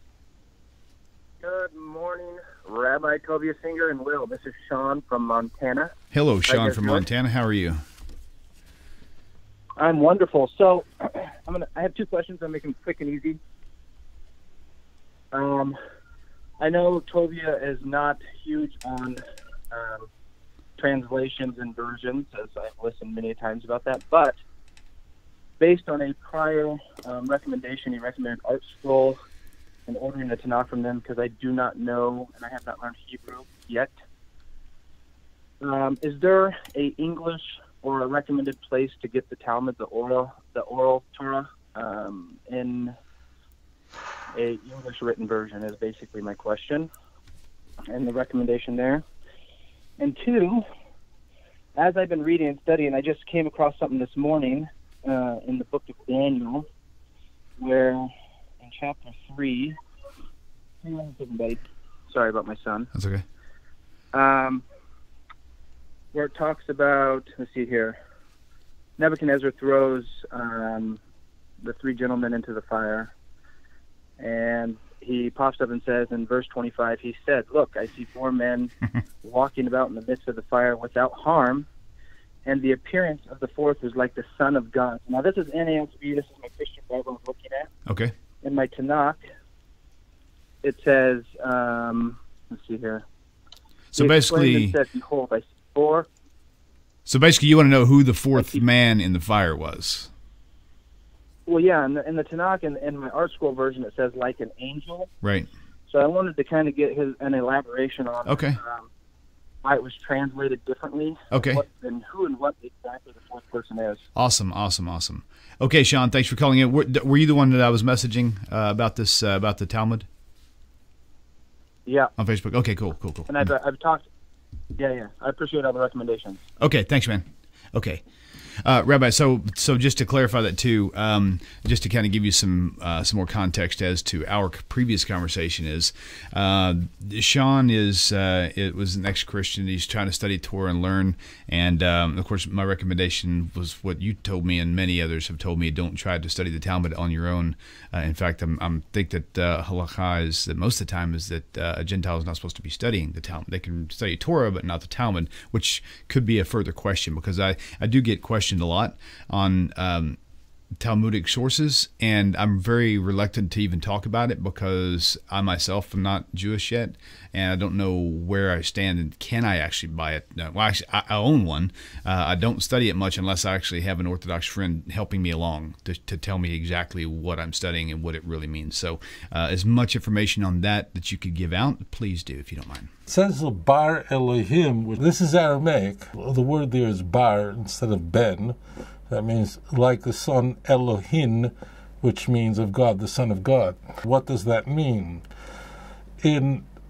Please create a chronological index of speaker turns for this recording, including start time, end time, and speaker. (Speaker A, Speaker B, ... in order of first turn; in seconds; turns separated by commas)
Speaker A: 1.4-5.9, Speaker B: 6.1-7.8, Speaker A: 6.5-7.0, Speaker A: 9.8-13.4, Speaker A: 15.3-15.8, Speaker A: 16.6-20.1, Speaker A: 20.8-24.4, Speaker A: 25.6-29.1, Speaker A: 29.9-33.9, Speaker A: 35.6-42.9, Speaker A: 44.3-46.9, Speaker A: 47.9-49.0, Speaker A: 50.0-50.6, Speaker A: 51.8-56.6, Speaker A: 57.6-58.1, Speaker A: 58.6-59.7, Speaker A: 60.8-62.9, Speaker B: 62.9-63.2, Speaker A: 64.1-64.6, Speaker A: 66.1-68.0, Speaker A: 69.0-71.0, Speaker A: 71.6-73.1, Speaker A: 74.2-78.7, Speaker A: 79.2-81.7, Speaker A: 82.4-87.7, Speaker B: 87.9-88.1, Speaker A: 88.4-89.2, Speaker A: 90.6-93.0, Speaker B: 93.9-94.8, Speaker A: 94.0-96.1, Speaker B: 97.0-100.1, Speaker A: 98.3-98.6, Speaker A: 101.5-105.1, Speaker B: 105.2-105.5, Speaker A: 105.9-108.9, Speaker B: 108.2-108.6, Speaker A: 109.6-114.0, Speaker B: 111.3-111.6, Speaker B: 114.2-120.1, Speaker A: 121.8-122.1, Speaker B: 122.2-123.5, Speaker A: 123.3-124.1, Speaker A: 124.8-126.4, Speaker B: 126.6-128.0, Speaker B: 128.6-160.2, Speaker B: 160.8-182.9, Speaker C: 183.1-188.6, Speaker C: 189.1-195.2, Speaker C: 196.2-196.6